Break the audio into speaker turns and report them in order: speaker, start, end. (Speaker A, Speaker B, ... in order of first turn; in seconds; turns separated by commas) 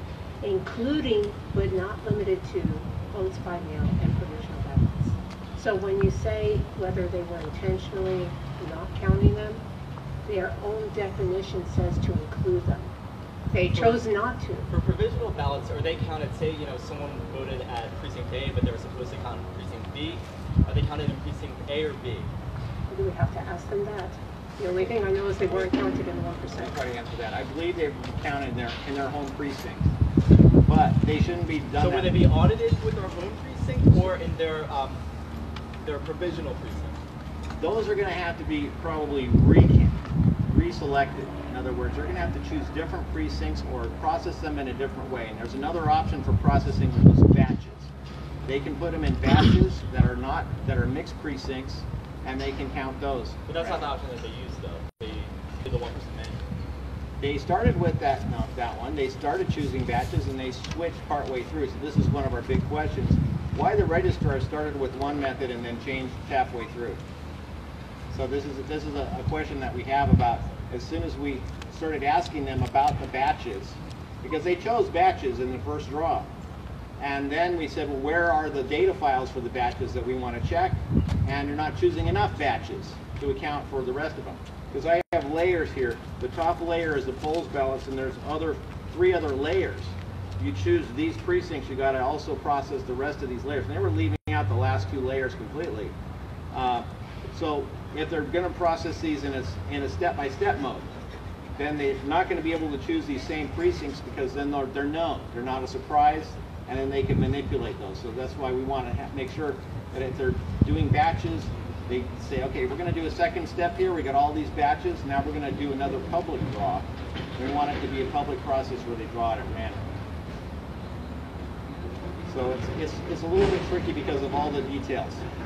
Speaker A: 0.4-9.6, Speaker A: 10.3-12.9, Speaker A: 13.5-14.7, Speaker B: 13.7-14.1, Speaker B: 14.7-22.3, Speaker A: 22.9-26.8, Speaker C: 26.5-29.9, Speaker C: 30.6-32.2, Speaker B: 31.8-35.0, Speaker B: 35.8-37.0, Speaker C: 37.6-40.0, Speaker C: 40.5-47.9, Speaker C: 48.5-53.9, Speaker B: 53.5-56.4, Speaker C: 57.2-67.0, Speaker C: 68.1-76.3, Speaker C: 77.0-95.9, Speaker C: 96.5-100.9, Speaker C: 101.6-116.9, Speaker C: 117.4-119.8, Speaker C: 122.3-125.2